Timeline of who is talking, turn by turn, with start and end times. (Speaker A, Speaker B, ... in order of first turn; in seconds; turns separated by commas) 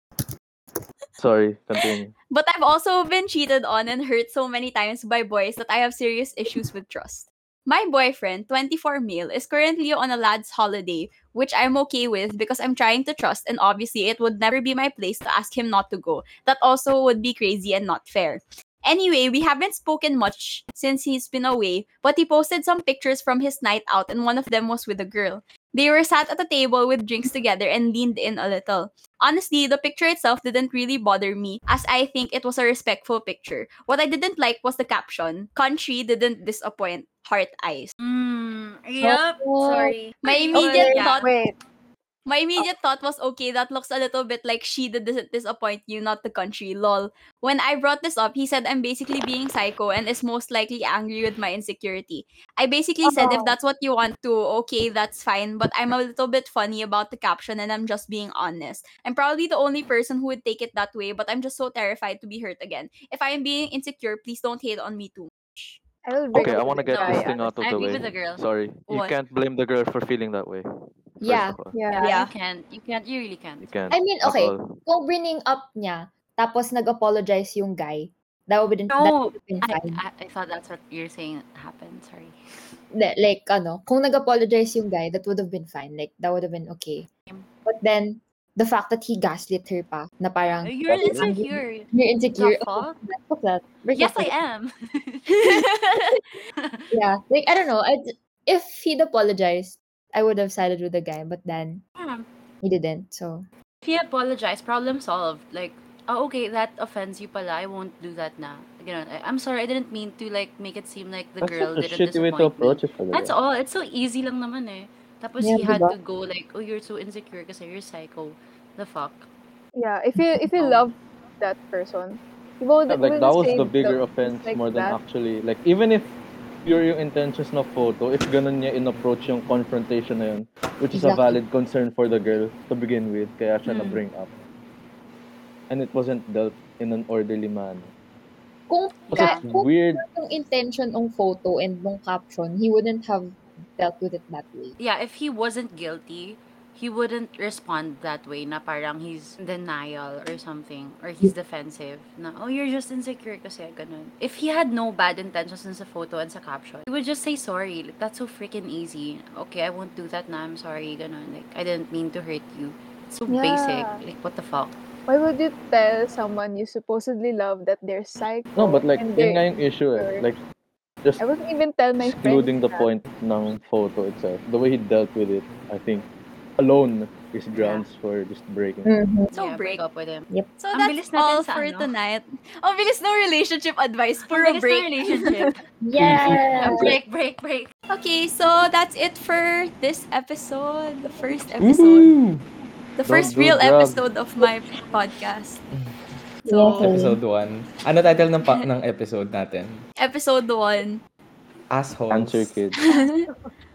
Speaker A: 1.2-2.1, Speaker B: 1.8-37.9, Speaker C: 38.0-41.3, Speaker D: 39.0-40.0, Speaker B: 40.2-41.3, Speaker D: 40.5-41.6, Speaker B: 42.3-65.8, Speaker E: 53.0-53.5, Speaker D: 66.0-67.6, Speaker A: 66.3-70.6, Speaker C: 66.4-68.4, Speaker B: 68.9-69.2, Speaker A: 71.2-71.8, Speaker E: 71.2-71.6, Speaker D: 71.7-72.2, Speaker B: 71.9-72.3, Speaker C: 72.0-73.7, Speaker A: 73.6-74.8, Speaker E: 73.9-80.0, Speaker C: 78.9-82.4, Speaker E: 82.9-87.1, Speaker E: 87.7-94.3, Speaker C: 90.6-93.0, Speaker A: 90.9-91.3, Speaker C: 94.0-95.5, Speaker B: 95.4-96.2, Speaker C: 96.6-96.9, Speaker E: 96.9-101.8, Speaker C: 102.0-102.3, Speaker E: 102.6-103.5, Speaker C: 103.8-119.3, Speaker A: 111.4-113.3, Speaker E: 115.4-115.9, Speaker D: 119.8-125.0, Speaker C: 120.5-120.9, Speaker A: 122.9-126.1, Speaker A: 126.7-134.3, Speaker E: 130.9-131.4, Speaker C: 133.7-134.0, Speaker A: 135.7-137.9, Speaker E: 138.7-144.8, Speaker A: 139.1-140.0, Speaker C: 139.1-139.4, Speaker C: 144.8-164.7, Speaker D: 163.3-164.0, Speaker D: 165.1-170.3, Speaker A: 168.6-170.4, Speaker D: 171.2-172.9, Speaker A: 172.0-176.1, Speaker A: 176.6-178.9, Speaker C: 177.6-177.8, Speaker E: 178.8-179.3, Speaker C: 179.3-181.9, Speaker B: 179.3-179.8, Speaker B: 180.6-185.2, Speaker C: 184.2-185.6, Speaker E: 185.8-187.0, Speaker F: 186.0-186.4, Speaker C: 186.1-187.7, Speaker B: 187.9-192.1, Speaker F: 191.6-192.4, Speaker B: 193.0-195.6, Speaker A: 193.1-194.0, Speaker B: 196.5-196.9, Speaker E: 196.5-197.2, Speaker F: 196.7-199.8, Speaker B: 200.0-201.0, Speaker F: 201.7-202.6, Speaker A: 202.1-202.8, Speaker B: 202.8-203.3